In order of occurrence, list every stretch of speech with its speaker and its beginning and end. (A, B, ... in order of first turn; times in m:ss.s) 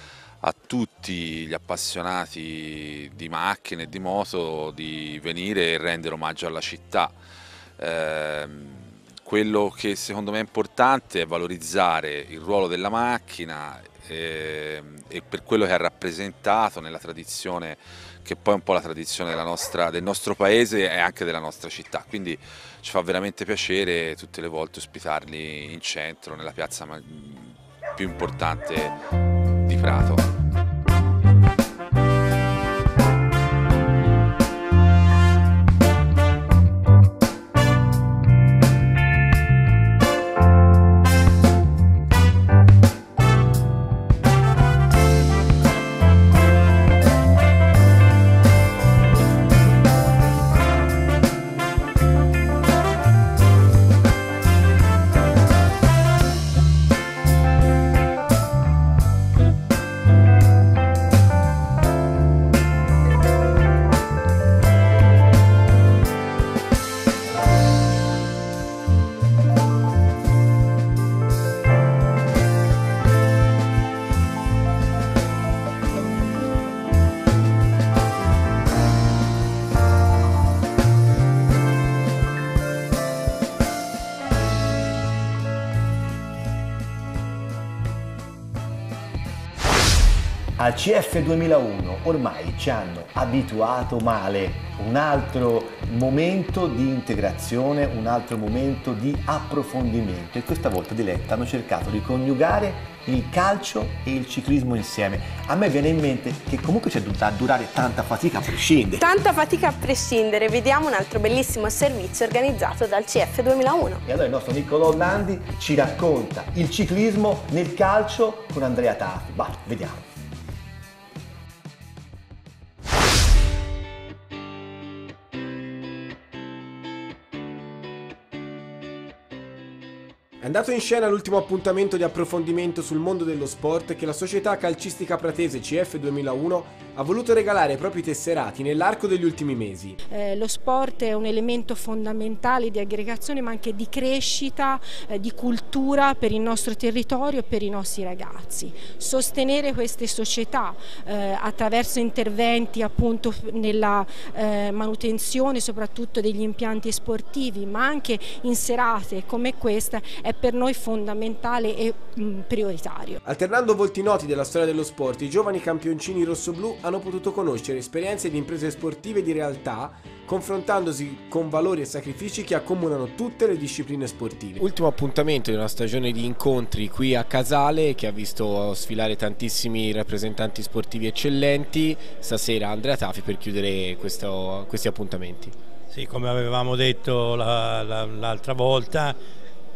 0:00.4-0:07.2 A
0:07.8-0:29.0 A
0:29.6-0:30.3 A
1:30.6-1:49.1 B
1:49.0-1:54.0 C
1:54.0-2:00.0 B
2:10.4-2:20.0 D
2:20.1-2:43.2 E
2:43.2-2:54.7 D
2:54.6-3:05.5 F
3:05.9-3:09.2 G